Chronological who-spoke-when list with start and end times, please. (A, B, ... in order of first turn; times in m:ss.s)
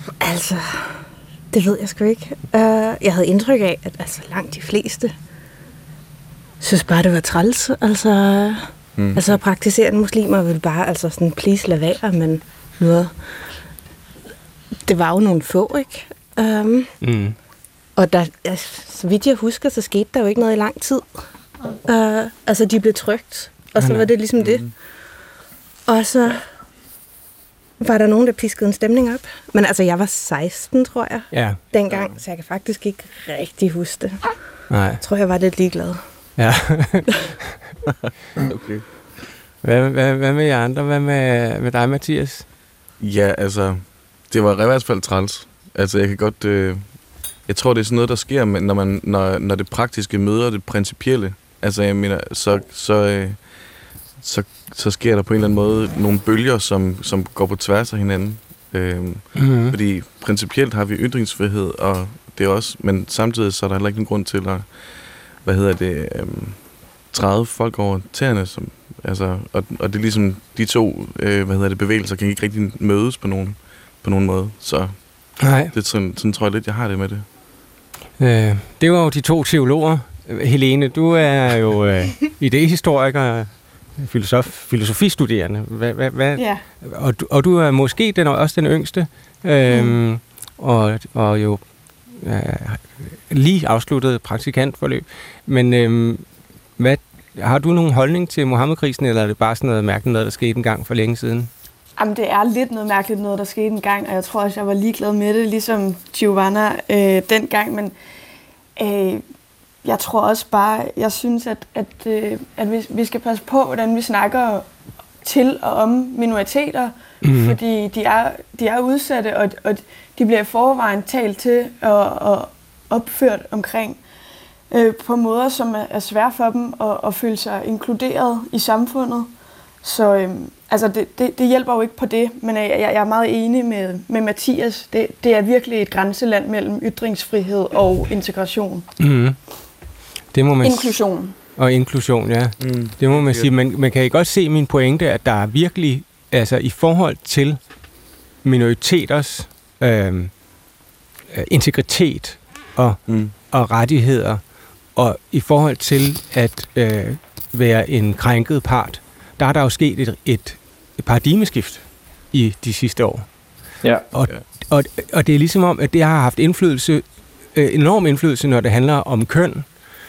0:00.2-0:05.1 A
0:06.6-0:13.2 A
0:09.0-0:09.4 B
0:14.8-0:16.9 A
0:17.0-0:17.4 C
0:18.0-0:21.2 A
0:21.8-0:24.7 A
0:23.8-0:24.1 C
0:24.4-0:24.7 B
0:25.9-0:26.4 A
0:27.8-0:34.3 A
0:31.3-0:31.6 C
0:31.9-0:32.2 B
0:34.7-0:35.0 C
0:35.0-0:36.0 A
0:36.4-0:37.1 C
0:38.5-0:38.9 B
0:39.6-0:42.4 C
0:43.0-1:17.3 B
0:59.4-0:59.8 C
1:15.4-1:15.7 C
1:18.2-1:36.3 C
1:26.4-1:26.6 D
1:29.7-1:30.0 D
1:36.8-1:41.5 C
1:42.0-1:48.0 D
1:48.8-1:49.2 D
1:49.8-1:54.7 D
1:55.2-2:04.0 D
1:57.2-1:57.6 C
2:04.7-2:09.3 D
2:09.8-2:18.9 D
2:19.0-2:19.4 C
2:20.3-2:27.6 C
2:20.6-2:21.4 D
2:22.6-2:23.6 B
2:28.4-2:30.5 C
2:31.3-2:34.4 C
2:33.1-2:33.3 B
2:34.9-2:43.5 C
2:44.1-2:49.8 C